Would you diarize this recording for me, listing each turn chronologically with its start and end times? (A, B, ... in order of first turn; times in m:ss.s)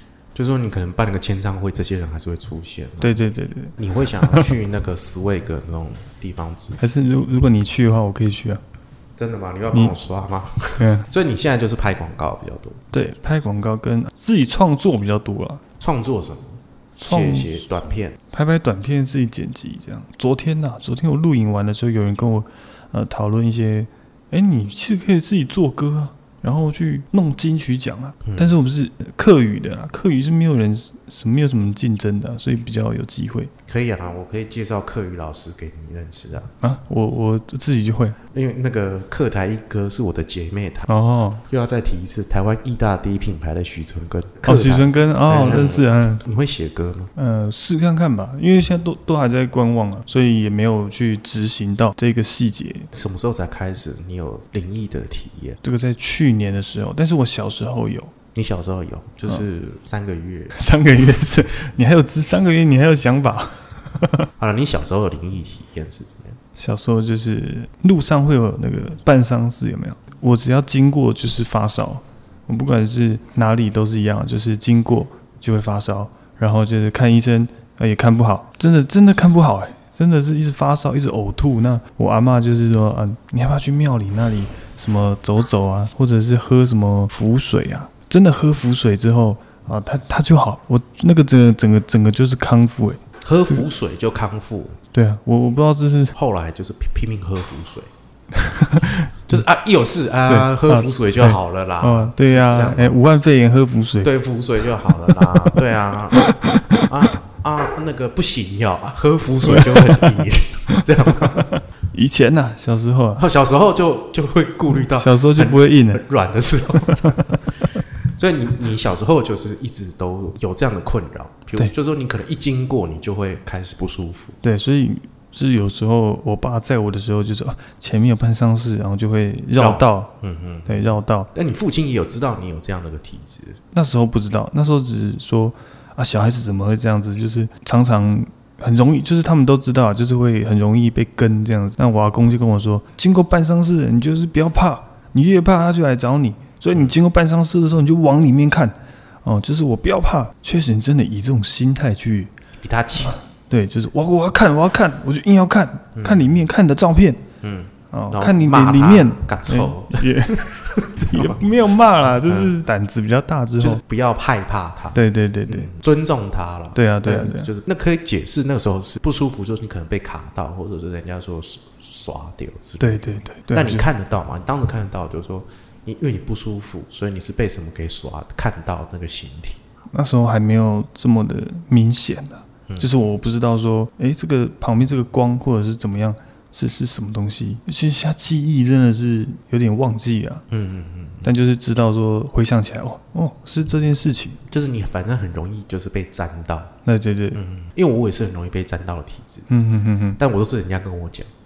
0:00.3-0:03.2 A
0:03.0-0:04.5 B
0:03.8-0:06.8 A
0:06.8-0:08.6 B
0:09.2-0:12.8 A
0:10.8-0:11.1 B
0:12.9-0:15.6 B
0:15.8-0:18.2 A
0:17.0-0:17.6 B
0:18.3-0:33.5 B
0:28.2-0:28.6 A
0:33.7-0:36.5 A
0:36.6-0:38.2 B
0:38.3-0:40.9 A
0:40.9-0:41.4 B
0:41.5-0:47.1 A
0:44.4-0:46.2 B
0:47.2-0:52.9 B
0:52.9-0:55.6 A
0:55.6-0:58.1 B
0:58.3-1:00.6 A
1:00.5-1:04.3 B
1:04.4-1:06.4 A
1:06.6-1:33.6 B
1:33.2-1:34.8 A
1:34.9-1:36.2 B
1:36.2-1:37.9 A
1:38.3-1:39.4 B
1:38.8-1:43.0 A
1:40.3-1:44.1 B
1:44.0-1:51.5 A
1:44.9-1:46.9 B
1:49.4-1:53.2 B
1:53.2-1:57.4 A
1:54.8-1:56.0 B
1:56.8-1:57.4 B
1:58.0-2:04.4 A
2:04.4-2:10.1 B
2:09.6-2:10.8 A
2:10.7-2:11.3 B
2:11.3-2:13.6 A
2:13.7-2:32.3 B
2:32.6-2:33.2 A
2:33.0-2:37.2 B
2:36.0-2:36.4 A
2:37.4-2:41.5 A
2:37.9-2:43.8 B
2:42.0-2:42.5 A
2:43.6-2:59.6 A
2:44.9-2:45.7 B
2:46.8-2:47.5 B
2:52.8-2:53.9 B
2:59.9-3:10.4 B
3:10.5-3:11.3 A
3:11.2-3:14.4 B
3:14.5-3:16.7 A
3:16.8-3:17.4 B
3:17.3-3:19.5 A
3:19.5-3:20.2 B
3:20.2-3:21.3 A